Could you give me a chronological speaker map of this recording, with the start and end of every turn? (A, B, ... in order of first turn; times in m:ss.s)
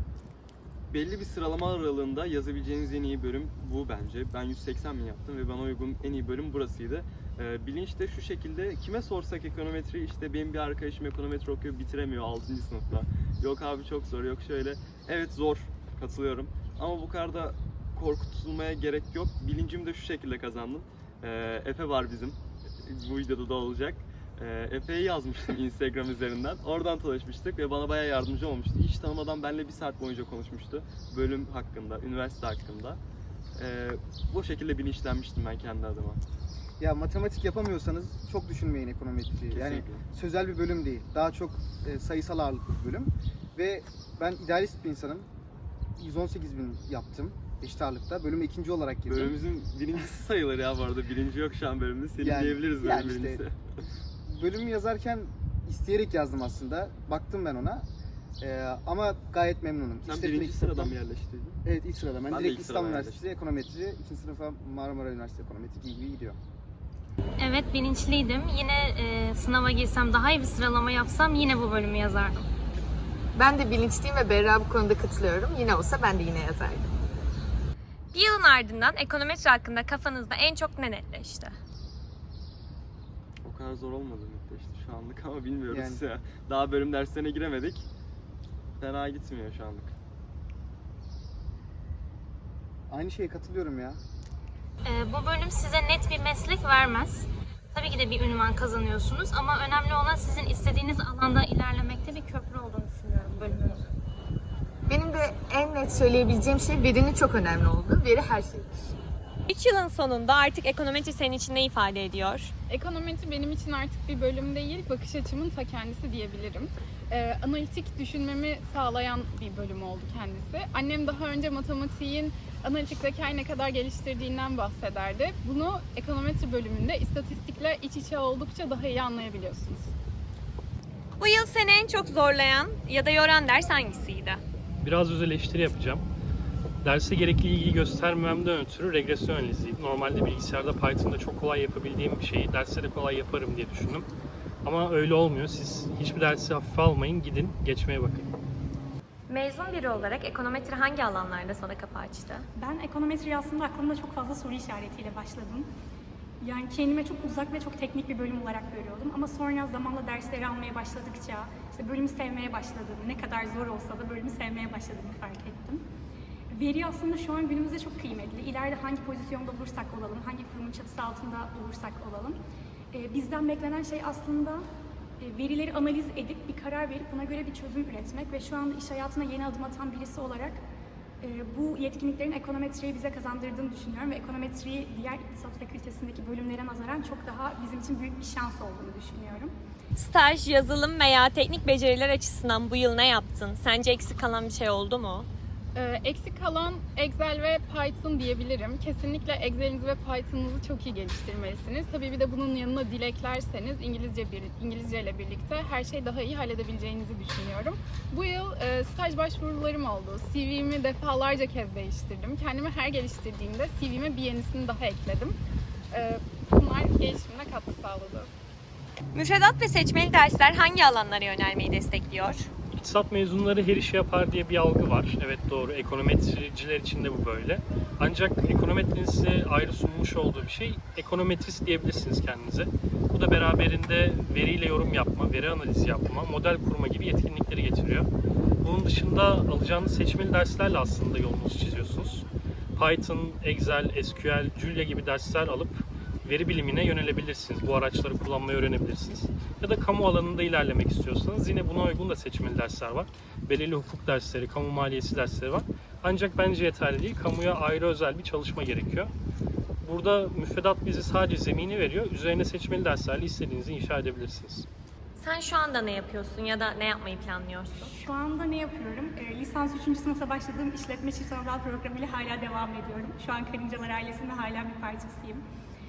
0:00.9-0:33.0 A
0:33.6-0:36.2 A
0:36.8-0:45.3 B
0:39.5-0:40.0 A
0:46.0-0:49.4 B
0:49.1-0:53.6 A
0:52.2-0:53.4 B
0:54.3-0:57.9 B
0:58.4-1:01.0 B
1:00.0-1:01.6 A
1:01.6-1:06.4 B
1:02.3-1:03.2 A
1:07.4-1:12.5 C
1:13.3-1:16.9 D
1:18.1-1:21.5 E
1:23.4-1:27.9 A
1:25.7-1:26.0 B
1:28.8-1:29.9 A
1:32.9-1:34.0 B
1:34.8-1:43.8 C
1:44.9-1:48.9 D
1:49.5-1:52.5 E
1:52.7-2:09.9 F
2:11.2-2:14.4 E
2:14.8-2:16.1 G
2:16.8-2:24.1 G
2:24.6-2:28.3 G
2:29.3-2:32.4 E
2:32.6-2:35.7 H
2:36.4-2:45.8 H
2:46.5-2:52.4 H
2:52.9-2:54.6 H
2:55.2-3:00.6 H
3:01.2-3:09.5 H
3:10.0-3:15.3 E
3:15.8-3:35.4 F
3:35.9-3:38.3 F
3:39.1-3:42.5 E
3:42.8-3:58.1 G
3:58.6-4:19.1 G
4:19.8-4:24.7 G
4:25.2-4:27.7 E
4:27.9-4:35.4 H